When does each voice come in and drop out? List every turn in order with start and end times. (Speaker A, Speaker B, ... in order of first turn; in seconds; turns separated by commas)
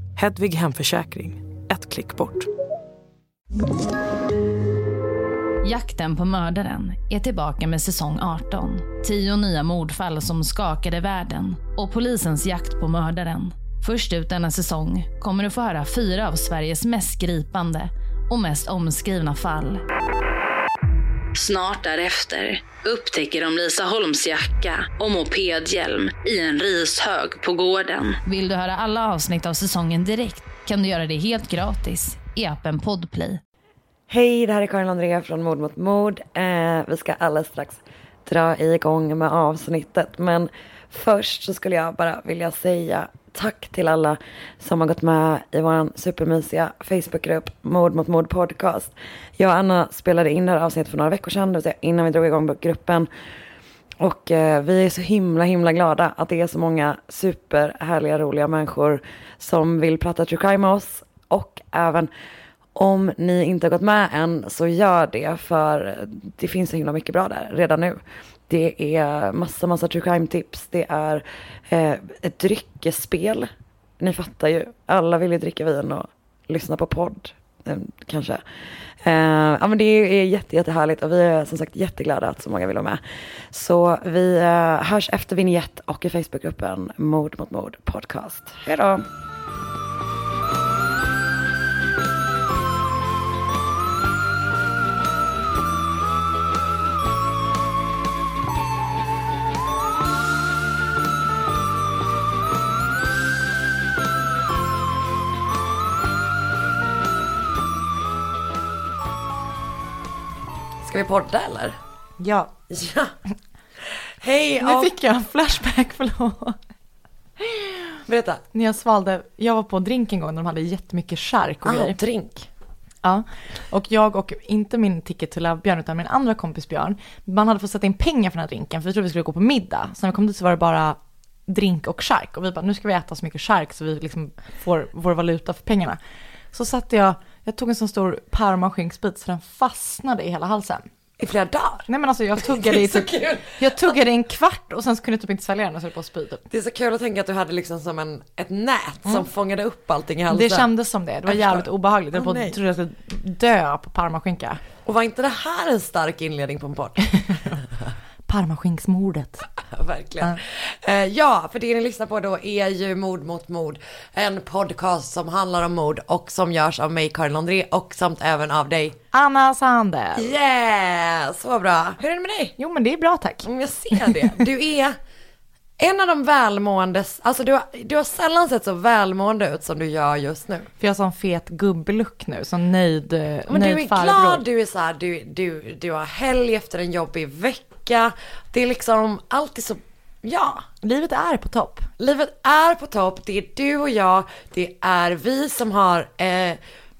Speaker A: 0.1-2.5, Speaker B: 5.6-19.8, Speaker B: 21.3-33.4, Speaker C: 34.1-53.1, Speaker C: 54.0-62.1, Speaker C: 62.7-78.4, Speaker C: 79.0-89.1, Speaker C: 110.8-111.8, Speaker D: 112.2-112.5, Speaker C: 112.7-113.1, Speaker C: 113.8-114.9, Speaker D: 114.6-116.6, Speaker D: 117.4-118.0, Speaker C: 118.0-118.4, Speaker D: 118.5-122.0, Speaker C: 121.6-122.5, Speaker D: 123.0-136.0, Speaker D: 136.5-140.8, Speaker C: 141.2-141.9, Speaker D: 141.9-146.4, Speaker C: 142.4-143.9, Speaker C: 146.5-150.7, Speaker D: 150.3-154.6, Speaker C: 151.2-152.6, Speaker C: 154.8-157.9, Speaker D: 157.2-157.4, Speaker D: 158.3-159.5, Speaker C: 159.6-169.0, Speaker D: 169.1-170.3, Speaker C: 170.2-172.6, Speaker D: 172.6-174.4, Speaker C: 173.4-175.0, Speaker C: 175.8-180.7, Speaker D: 180.8-184.4, Speaker C: 183.5-190.6, Speaker D: 190.8-191.9, Speaker C: 192.0-196.6